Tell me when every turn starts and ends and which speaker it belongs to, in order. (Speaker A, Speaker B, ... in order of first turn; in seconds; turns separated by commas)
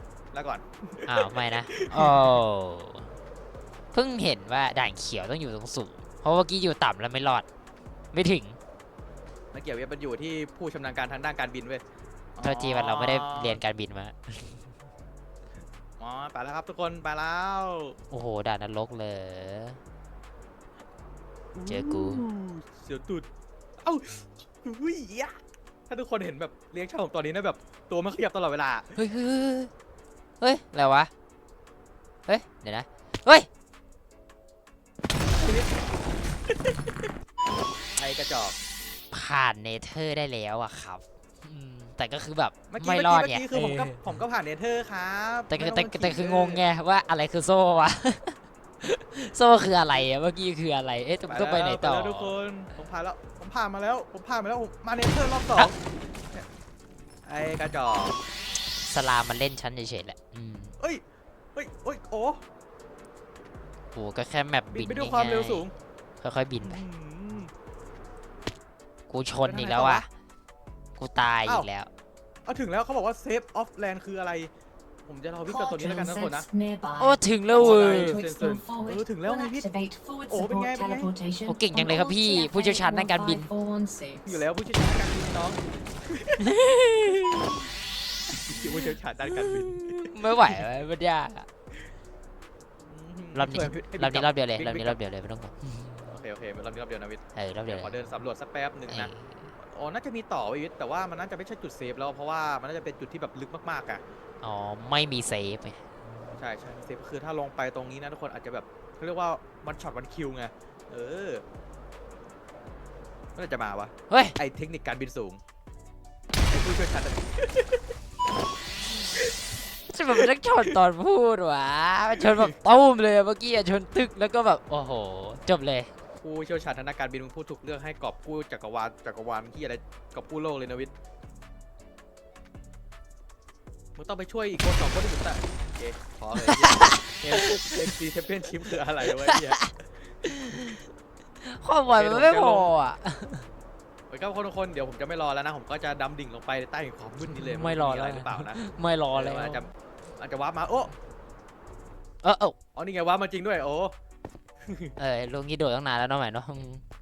Speaker A: 0.3-2.4, Speaker B: 1.1-3.1, Speaker B: 3.9-7.4, Speaker B: 8.1-8.6, Speaker A: 9.5-11.8, Speaker A: 12.4-13.6, Speaker B: 12.4-14.6, Speaker A: 16.0-17.9, Speaker B: 18.1-19.8, Speaker A: 21.5-23.3, Speaker B: 21.7-22.2, Speaker A: 23.8-25.4, Speaker A: 25.9-28.9, Speaker B: 28.9-29.7, Speaker B: 30.4-31.1, Speaker B: 32.3-33.5, Speaker A: 35.4-35.7, Speaker A: 36.5-36.9, Speaker A: 38.0-38.5, Speaker B: 39.1-44.2, Speaker A: 42.7-46.6, Speaker B: 45.5-52.3, Speaker A: 51.3-55.8, Speaker A: 57.2-58.1, Speaker B: 58.9-60.7, Speaker A: 61.5-62.4, Speaker B: 63.9-65.7, Speaker A: 64.7-65.7, Speaker B: 66.2-66.8, Speaker A: 66.6-67.5, Speaker B: 69.1-70.1, Speaker A: 69.4-70.1, Speaker B: 71.0-71.9, Speaker A: 72.5-74.5, Speaker A: 75.1-76.5, Speaker C: 75.4-84.4, Speaker B: 77.0-78.2, Speaker A: 77.5-79.7, Speaker A: 80.3-81.1, Speaker B: 81.5-83.5, Speaker A: 84.2-87.2, Speaker B: 86.4-87.6, Speaker B: 88.3-91.5, Speaker A: 88.5-90.6, Speaker A: 92.9-95.0, Speaker B: 93.3-96.2, Speaker A: 96.1-104.0, Speaker B: 97.3-98.0, Speaker B: 98.9-99.5, Speaker B: 104.4-106.4, Speaker A: 106.3-111.4, Speaker A: 113.3-115.4, Speaker B: 114.1-114.3, Speaker A: 116.5-117.7, Speaker B: 119.9-125.9, Speaker A: 120.1-120.8, Speaker A: 122.2-122.6, Speaker A: 126.2-130.9, Speaker A: 133.9-139.7, Speaker B: 136.4-137.9, Speaker B: 139.0-139.7, Speaker B: 140.2-140.8, Speaker B: 141.4-143.4, Speaker A: 141.8-142.8, Speaker A: 144.1-150.9, Speaker B: 147.2-149.6, Speaker B: 152.2-152.5, Speaker A: 152.8-153.9, Speaker A: 154.6-154.9, Speaker B: 155.0-156.8